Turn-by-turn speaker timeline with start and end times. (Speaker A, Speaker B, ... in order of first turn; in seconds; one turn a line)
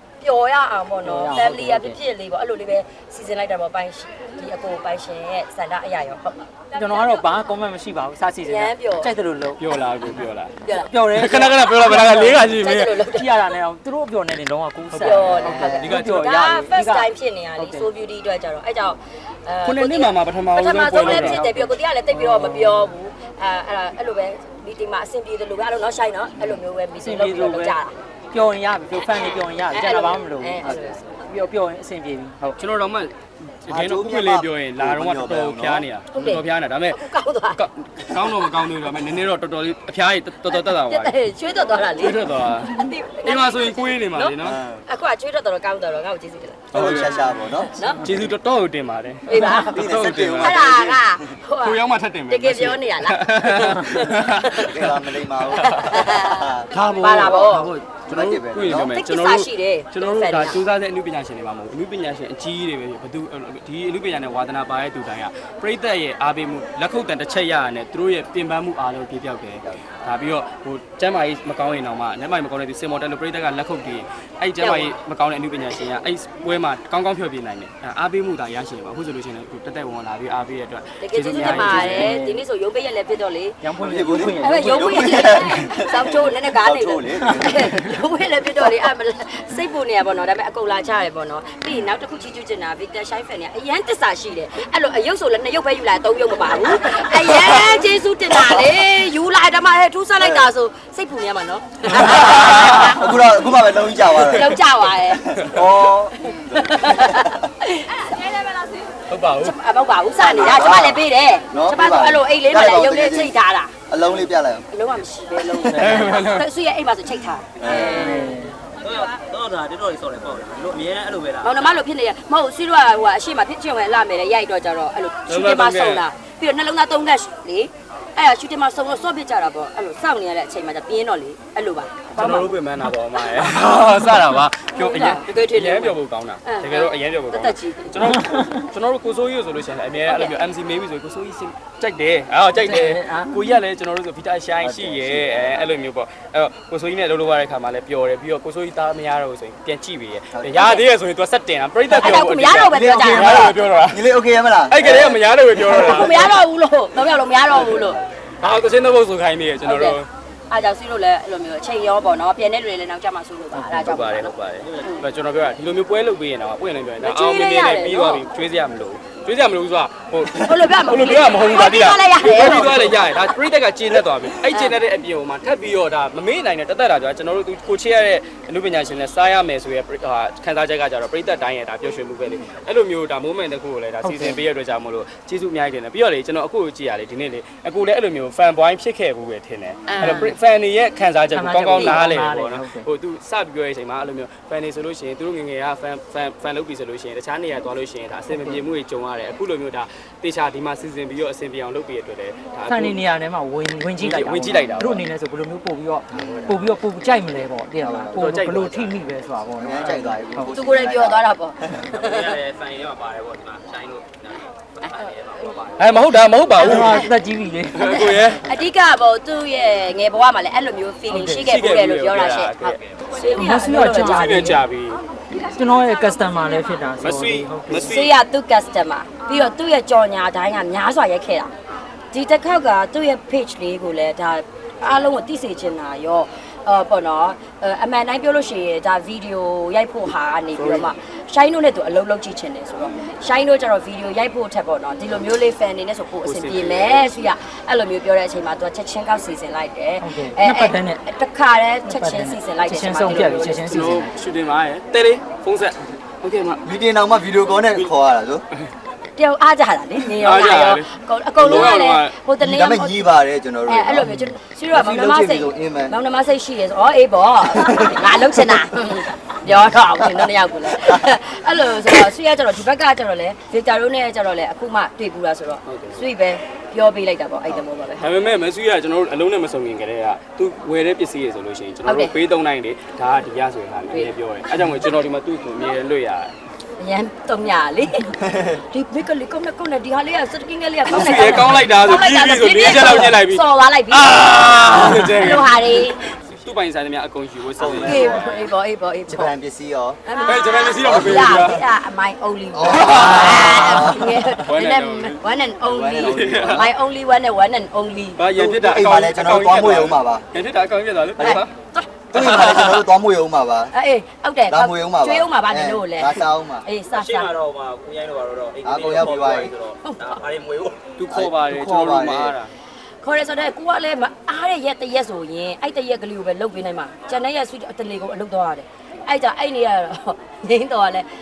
Speaker A: 0.2-7.1
Speaker B: 1.0-2.0
Speaker B: 6.8-9.6
Speaker A: 8.4-9.1
Speaker C: 9.6-10.6
Speaker A: 10.6-10.9
Speaker B: 10.9-12.4
Speaker C: 11.1-13.0
Speaker A: 11.5-13.4
Speaker B: 13.0-17.9
Speaker C: 14.9-16.2
Speaker A: 15.0-27.9
Speaker D: 15.5-15.9
Speaker C: 19.6-21.5
Speaker B: 21.1-21.6
Speaker B: 22.1-22.9
Speaker B: 27.0-27.8
Speaker B: 28.3-32.6
Speaker A: 29.7-31.0
Speaker C: 32.6-37.0
Speaker D: 33.7-35.9
Speaker A: 36.1-37.6
Speaker C: 37.5-41.1
Speaker A: 40.5-44.4
Speaker C: 42.0-44.6
Speaker D: 44.4-44.8
Speaker A: 44.9-48.0
Speaker C: 46.7-47.3
Speaker D: 46.7-47.9
Speaker C: 48.0-50.7
Speaker A: 49.3-54.9
Speaker D: 49.5-51.2
Speaker C: 51.6-55.0
Speaker D: 54.6-56.7
Speaker A: 55.6-57.7
Speaker C: 56.7-82.2
Speaker D: 58.1-59.0
Speaker A: 58.7-60.6
Speaker A: 74.6-74.9
Speaker A: 81.0-83.6
Speaker B: 81.4-82.4
Speaker B: 83.6-85.4
Speaker D: 83.8-87.8
Speaker A: 84.4-103.1
Speaker B: 87.2-87.5
Speaker D: 98.3-98.7
Speaker D: 100.2-100.5
Speaker C: 102.3-102.7
Speaker D: 102.4-104.5
Speaker A: 104.1-108.7
Speaker D: 105.3-107.5
Speaker C: 109.1-109.5
Speaker A: 109.4-113.8
Speaker D: 110.2-113.3
Speaker D: 113.9-114.7
Speaker A: 114.7-118.4
Speaker C: 115.7-116.5
Speaker D: 117.6-118.0
Speaker E: 117.7-118.2
Speaker B: 117.7-118.6
Speaker E: 118.8-121.5
Speaker A: 121.4-132.5
Speaker C: 125.3-126.0
Speaker C: 132.1-154.0
Speaker A: 134.8-138.2
Speaker A: 140.1-140.4
Speaker B: 142.6-143.4
Speaker D: 144.6-145.5
Speaker D: 150.3-150.8
Speaker A: 150.6-150.8
Speaker A: 151.9-153.5
Speaker D: 152.0-156.3
Speaker C: 154.7-156.4
Speaker A: 155.7-158.0
Speaker C: 158.4-160.1
Speaker A: 159.6-164.3
Speaker C: 163.7-203.0
Speaker E: 164.6-165.0
Speaker A: 167.0-168.2
Speaker A: 170.3-173.2
Speaker A: 174.5-174.8
Speaker B: 184.0-184.4
Speaker B: 189.9-190.3
Speaker B: 191.3-192.9
Speaker A: 191.8-192.0
Speaker B: 198.3-198.6
Speaker B: 202.7-210.5
Speaker C: 203.9-205.1
Speaker D: 206.1-206.6
Speaker D: 207.8-208.2
Speaker C: 208.1-209.0
Speaker D: 209.6-211.8
Speaker A: 210.5-212.4
Speaker E: 211.9-215.9
Speaker C: 215.8-217.1
Speaker A: 216.6-217.0
Speaker B: 216.6-218.1
Speaker C: 217.7-218.4
Speaker A: 218.0-224.6
Speaker B: 221.1-221.4
Speaker C: 221.4-222.9
Speaker B: 223.3-224.6
Speaker C: 224.0-225.0
Speaker B: 225.5-227.9
Speaker C: 227.0-228.1
Speaker A: 227.7-231.5
Speaker A: 232.1-253.9
Speaker C: 240.6-240.9
Speaker C: 246.2-247.2
Speaker B: 250.0-251.0
Speaker B: 251.8-254.2
Speaker C: 253.6-256.6
Speaker D: 256.6-258.4
Speaker A: 259.1-263.1
Speaker C: 260.2-260.9
Speaker C: 261.4-262.2
Speaker D: 262.4-265.9
Speaker A: 263.7-278.1
Speaker D: 267.6-268.0
Speaker C: 275.7-276.0
Speaker C: 278.0-286.4
Speaker A: 281.9-282.1
Speaker A: 283.9-284.8
Speaker A: 286.8-288.2
Speaker D: 288.2-288.6
Speaker A: 288.7-296.0
Speaker C: 290.9-298.1
Speaker D: 297.6-298.4
Speaker A: 297.9-299.3
Speaker D: 299.1-300.0
Speaker A: 300.1-308.2
Speaker C: 300.2-301.6
Speaker D: 300.8-301.6
Speaker D: 302.5-304.2
Speaker C: 302.7-303.8
Speaker C: 304.4-305.2
Speaker D: 305.6-306.7
Speaker C: 306.0-306.7
Speaker C: 308.2-311.5
Speaker D: 308.3-310.3
Speaker A: 311.2-311.9
Speaker D: 312.1-313.7
Speaker C: 312.1-312.9
Speaker A: 313.7-317.3
Speaker D: 314.5-316.7
Speaker E: 316.9-320.9
Speaker D: 318.6-319.5
Speaker A: 319.8-320.2
Speaker C: 321.0-322.5
Speaker D: 321.1-322.4
Speaker A: 323.0-331.1